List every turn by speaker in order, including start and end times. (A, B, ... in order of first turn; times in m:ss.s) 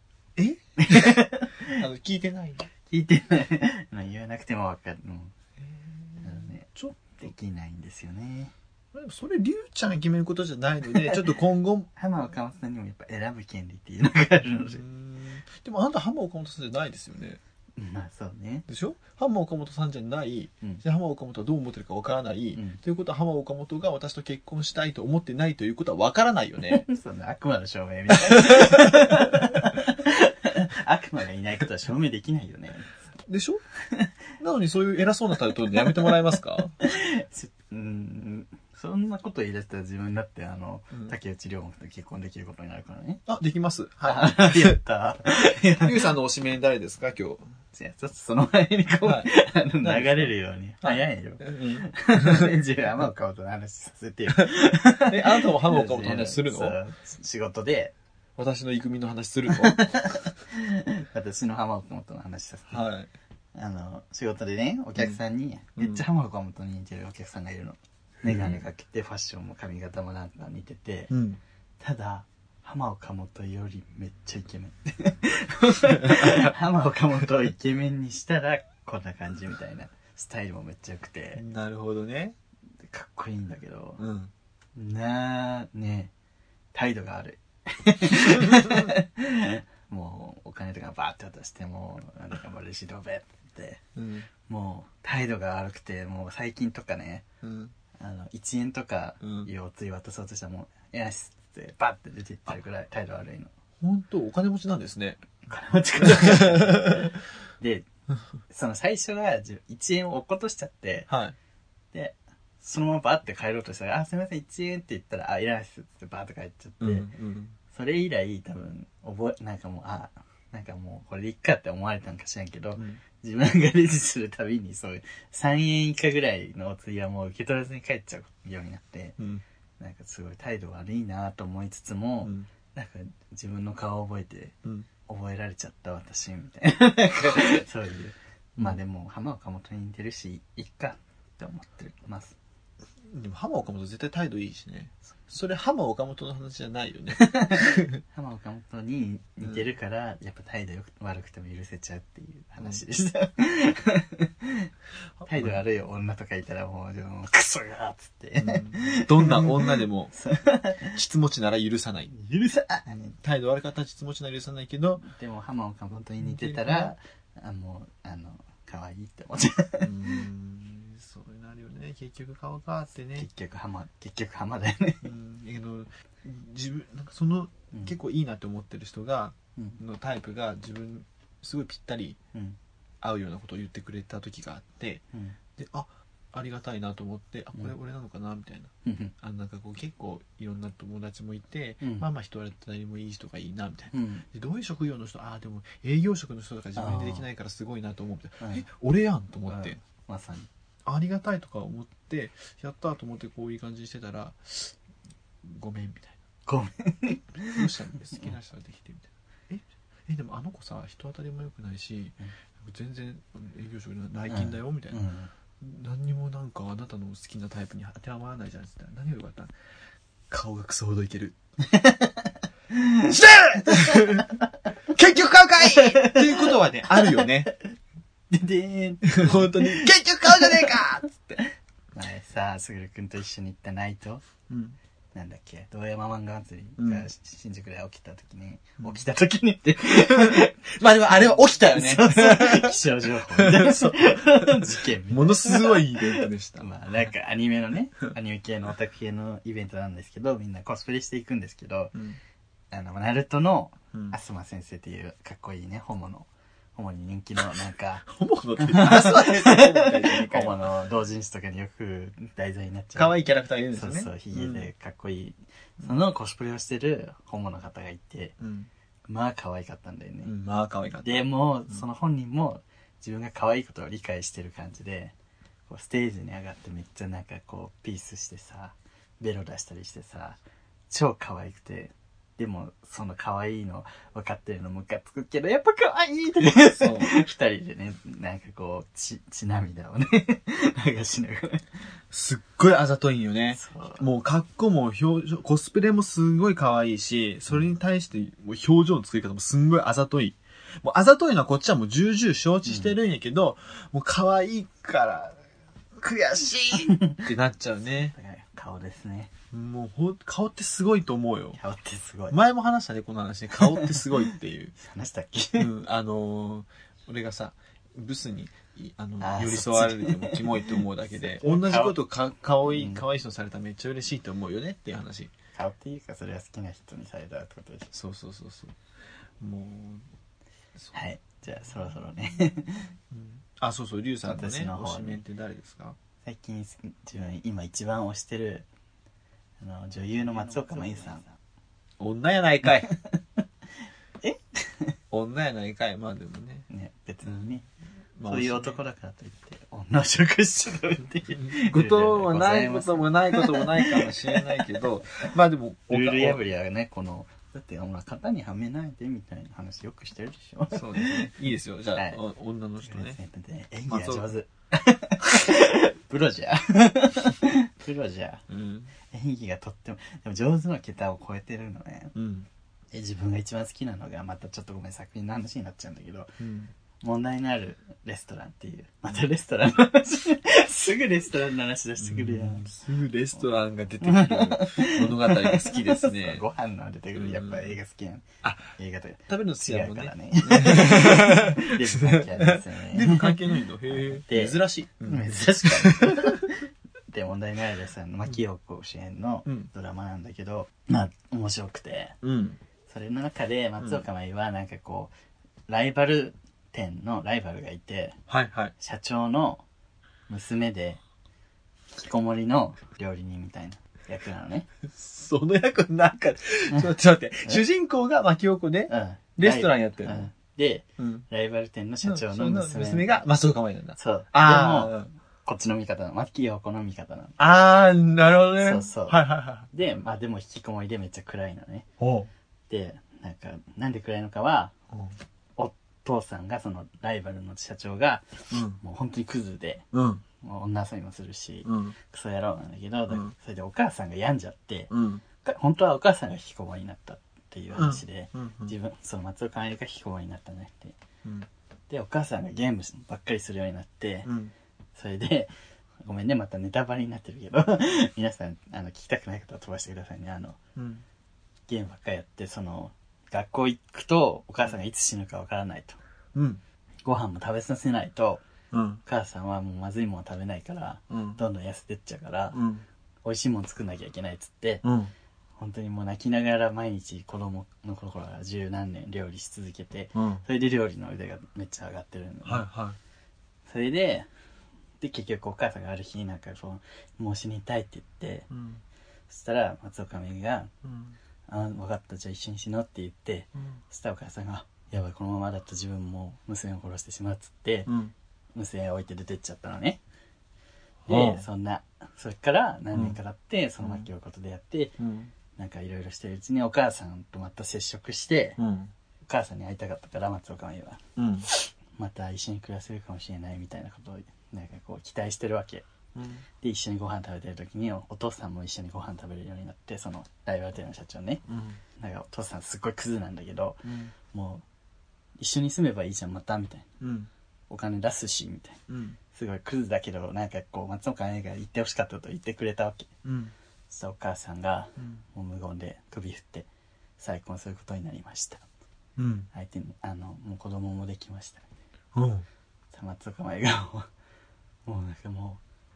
0:00.4-0:02.7 A
0:00.8-0:01.7 B
0:02.9-0:05.3 B
0:05.6-0:07.2 A
0:06.2-0:08.5 B
0:08.9-0:11.9 A
0:12.0-0:14.8 B
0:14.6-0:17.4 A
0:17.8-0:18.6 B
0:18.7-0:26.8 A
0:22.5-0:22.8 B
0:26.7-0:32.9 B
0:28.5-0:29.0 A
0:33.2-0:33.6 A
0:34.4-0:36.8 A
0:36.8-0:43.2 B
0:43.3-0:44.8 A
0:44.0-0:46.1 B
0:45.8-0:47.5 A
0:47.7-0:57.9 B
0:49.0-0:52.5 A
0:54.3-0:56.8 A
0:58.4-1:00.1 A
0:59.5-1:02.8 B
1:02.7-1:03.1 A
1:03.5-1:11.1 B
1:05.8-1:06.0 A
1:08.2-1:08.6 A
1:11.1-1:11.4 A
1:11.8-1:21.4 B
1:15.9-1:16.5 A
1:21.3-1:22.4 A
1:22.8-1:24.0 B
1:24.0-1:24.3 A
1:24.7-1:26.1 B
1:26.7-1:33.8 B
1:28.5-1:28.8 A
1:34.0-1:34.3 A
1:34.5-1:37.2 B
1:37.4-1:37.7 A
1:38.0-1:43.5 B
1:39.2-1:39.5 A
1:43.8-1:45.2 A
1:45.4-1:47.8 B
1:46.0-1:47.2 A
1:48.5-1:51.1 B
1:51.1-1:51.4 A
1:51.9-1:57.1 B
1:56.8-1:57.6 A
1:57.7-2:09.2 B
2:02.8-2:03.0 A
2:09.8-2:14.6 B
2:12.2-2:12.5 A
2:15.1-2:22.4 B
2:23.0-2:28.0 A
2:27.2-2:34.7 B
2:35.2-2:35.6 A
2:35.2-2:41.0 B
2:38.4-2:40.1 A
2:40.9-2:42.1 A
2:42.1-2:43.1 B
2:42.9-2:45.0 A
2:45.0-2:50.0 B
2:46.2-2:46.9 A
2:49.8-2:53.3 A
2:53.2-2:55.0 B
2:55.0-3:02.2 A
3:03.0-3:05.0 A
3:05.1-3:05.4 B
3:05.6-3:19.8 A
3:08.8-3:09.1 B
3:11.8-3:12.1 B
3:13.9-3:14.2 B
3:16.8-3:17.3 B
3:19.5-3:20.5 B
3:20.8-3:24.7 A
3:25.4-3:26.2 A
3:26.4-3:28.3 B
3:27.4-3:35.0 A
3:34.3-3:35.3 B
3:35.6-3:39.5 A
3:40.3-3:41.4 A
3:41.7-3:43.1 B
3:43.0-3:44.4 A
3:43.7-3:44.2 B
3:44.9-3:47.5 A
3:45.6-3:47.3 B
3:48.3-3:50.9 B
3:49.0-3:51.3 A
3:51.9-3:54.2 B
3:54.5-3:54.8 A
3:55.1-4:11.9 B
3:56.8-3:57.1 A
4:00.1-4:06.7 A
4:12.7-4:18.0 B
4:18.0-4:20.7 A
4:18.6-4:23.2 B
4:22.9-4:24.7 A
4:23.7-4:28.4 B
4:28.4-4:28.7 A
4:29.1-4:30.3 B
4:30.2-4:31.8 A
4:31.0-4:35.1 B
4:35.7-4:40.4 B
4:40.9-4:51.7 B
4:46.6-4:47.1 A
4:52.1-5:05.4 A
4:53.6-4:54.0 B
5:02.6-5:03.0 B
5:06.0-5:08.1 A
5:06.8-5:07.2 B
5:08.1-5:09.3 B
5:09.5-5:11.6 A
5:11.6-5:12.4 B
5:12.3-5:14.8 A
5:13.6-5:14.1 B
5:14.8-5:15.7 B
5:15.6-5:25.3 A
5:19.2-5:20.8 B
5:21.4-5:22.0 B
5:22.7-5:23.0 B
5:25.5-5:27.9 B
5:27.9-5:28.8 A
5:29.4-5:30.1 A
5:30.9-5:32.9 B
5:33.1-5:36.0 A
5:34.2-5:35.2 B
5:36.2-5:38.7 B
5:39.6-5:41.3 B
5:42.0-5:42.9 A
5:42.9-5:43.2 B
5:44.2-5:45.0 B
5:45.1-5:46.7 A
5:46.7-5:47.6 B
5:48.2-5:48.8 A
5:48.3-5:54.8 B
5:51.3-5:56.4 A
5:55.9-6:01.3 B
6:00.7-6:03.2 A
6:01.9-6:02.2 B
6:02.8-6:08.4 B
6:03.9-6:04.3 A
6:08.5-6:08.9 A
6:09.1-6:12.1 B
6:12.1-6:12.5 A
6:12.9-6:16.3 B
6:16.4-6:16.7 A
6:17.0-6:22.7 B
6:22.0-6:26.4 A
6:24.0-6:36.5 B
6:27.1-6:27.8 A
6:28.4-6:28.7 A
6:29.3-6:36.5 A
6:37.1-6:42.2 B
6:42.2-6:42.6 A
6:42.9-6:45.1 B
6:45.7-6:48.2 B
6:48.3-6:48.7 A
6:48.8-6:49.6 B
6:50.3-6:51.0 B
6:51.9-6:54.7 B
6:54.8-7:00.3 A
6:58.9-7:03.2 B
7:01.0-7:01.3 A
7:02.0-7:05.1 A
7:04.0-7:07.4 B
7:07.4-7:09.7 A
7:08.6-7:11.9 B
7:12.0-7:12.3 A
7:12.7-7:14.7 B
7:15.6-7:18.3 B
7:18.5-7:18.8 A
7:18.8-7:19.8 B
7:19.9-7:20.2 A
7:20.4-7:24.9 B
7:21.6-7:22.0 A
7:23.1-7:23.3 A
7:24.9-7:25.2 A
7:25.4-7:31.0 B
7:27.7-7:28.7 A
7:31.9-7:34.3 B
7:34.2-7:34.5 A
7:35.0-7:35.5 B
7:36.0-7:40.6 B
7:40.8-7:41.0 A
7:41.7-7:46.0 B
7:46.3-7:46.6 A
7:47.0-7:48.4 B
7:48.7-7:49.0 A
7:49.0-7:52.6 B
7:51.1-7:51.4 A
7:52.5-7:52.8 A
7:53.2-7:54.8 B
7:54.8-7:55.1 A
7:55.6-8:02.6 B
8:00.1-8:00.4 A
8:02.4-8:03.0 A
8:03.6-8:04.3 B
8:05.0-8:08.5 B
8:08.5-8:08.8 A
8:09.3-8:10.7 B
8:10.8-8:11.2 A
8:11.5-8:17.9 B
8:13.6-8:13.8 A
8:17.8-8:18.1 A
8:18.5-8:20.0 B
8:21.0-8:21.4 A
8:21.1-8:25.0 B
8:22.9-8:23.2 A
8:23.8-8:24.1 A
8:25.0-8:25.3 A
8:25.6-8:28.6 B
8:28.6-8:28.9 A
8:29.2-8:35.8 B
8:31.2-8:31.5 A
8:36.1-8:36.4 A
8:36.6-8:41.4 B
8:41.5-8:41.8 A
8:42.0-8:44.6 B
8:43.8-8:44.1 A
8:45.4-8:46.9 B
8:47.0-8:47.3 A
8:47.7-8:48.8 B
8:48.9-8:49.2 A
8:49.3-8:53.1 B
8:53.2-8:53.5 A
8:53.9-8:56.7 B
8:55.0-8:55.2 A
8:57.2-8:58.6 B
8:59.2-8:59.5 A
8:59.5-9:01.6 B
9:02.1-9:02.4 A
9:02.9-9:04.1 B
9:04.8-9:05.6 B